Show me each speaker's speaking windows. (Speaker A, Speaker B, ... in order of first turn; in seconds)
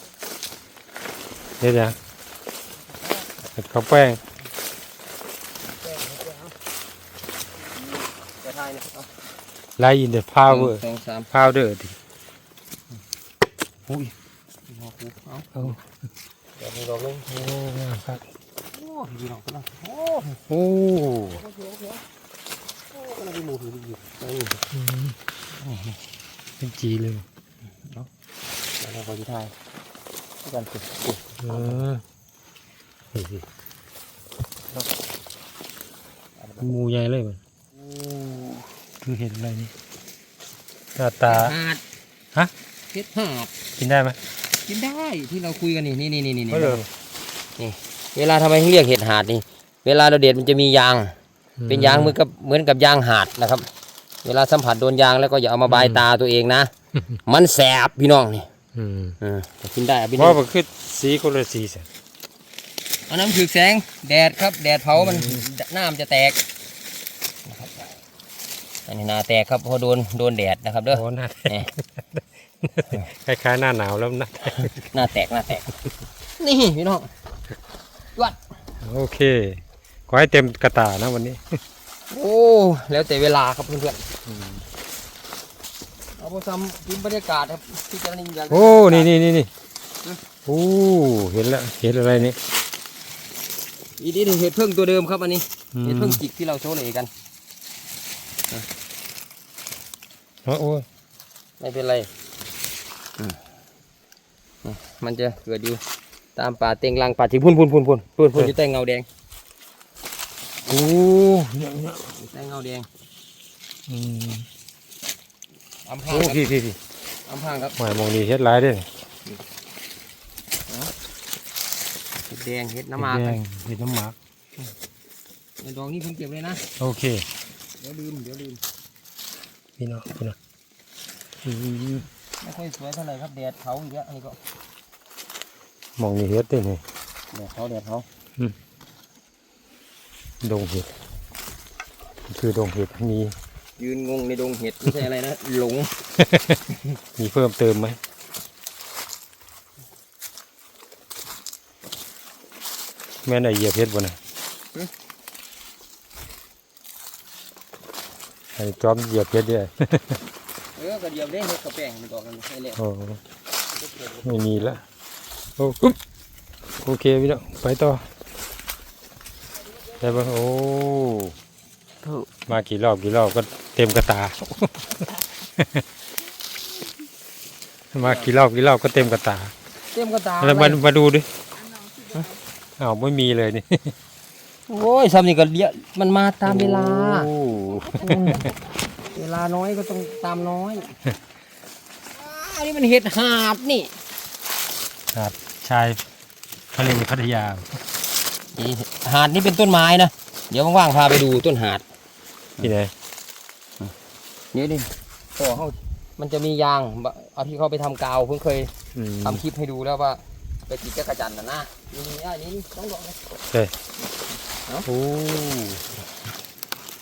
Speaker A: 1.6-2.0, 3.6-4.2, 9.8-10.8, 11.3-12.0, 13.9-14.1, 17.3-18.2, 20.5-21.4, 24.7-25.2, 26.6-27.2, 31.4-32.0, 33.1-33.5, 36.6-37.4, 38.0-39.7, 41.0-41.5, 43.8-44.2, 46.5-46.9, 51.6-52.2, 55.7-56.0, 58.8-59.2, 60.2-61.9, 64.9-65.5, 70.9-74.9, 78.8-81.6, 84.2-84.7, 88.5-89.5, 90.5-92.4, 95.8-96.2, 100.4-100.9, 110.7-112.1, 113.9-114.5, 116.1-116.8, 117.8-118.9, 123.0-124.2, 126.8-127.2, 129.8-130.4, 131.4-132.1, 136.0-136.8, 140.4-140.9, 142.3-143.3, 146.2-146.6, 147.2-148.0, 153.2-154.2, 158.6-160.2, 162.8-163.2, 164.2-164.8, 165.6-166.0, 166.8-168.1, 169.9-171.4, 172.5-175.1, 175.6-175.8, 177.9-179.5, 180.4-181.3, 182.8-183.9, 186.5-188.5, 195.1-196.0, 196.7-197.7, 202.6-202.9, 208.9-209.4, 214.9-215.8
Speaker B: 5.7-6.5, 8.2-9.1, 10.5-11.3, 14.7-15.8, 16.6-17.5, 18.7-20.5, 21.3-22.0, 22.9-24.6, 25.5-26.0, 27.8-28.1, 28.8-29.6, 30.4-31.9, 36.4-36.7, 41.2-41.8, 42.9-43.5, 44.6-46.9, 47.6-51.2, 51.7-53.7, 54.2-56.7, 57.2-58.5, 59.2-60.4, 63.1-66.4, 67.5-67.9, 68.9-71.7, 74.8-75.8, 76.4-77.1, 82.1-84.0, 86.2-89.1, 94.0-97.1, 101.6-102.1, 104.6-105.8, 106.4-109.1, 112.1-112.9, 115.8-116.5, 117.2-117.8, 122.3-123.4, 125.6-126.7, 127.8-128.6, 132.4-134.4, 137.3-138.1, 143.8-146.0, 160.8-162.8, 163.8-164.7, 178.0-178.3, 179.9-180.8, 184.7-188.6, 189.1-190.9, 192.1-194.0, 198.5-201.8, 204.5-208.7, 209.2-213.2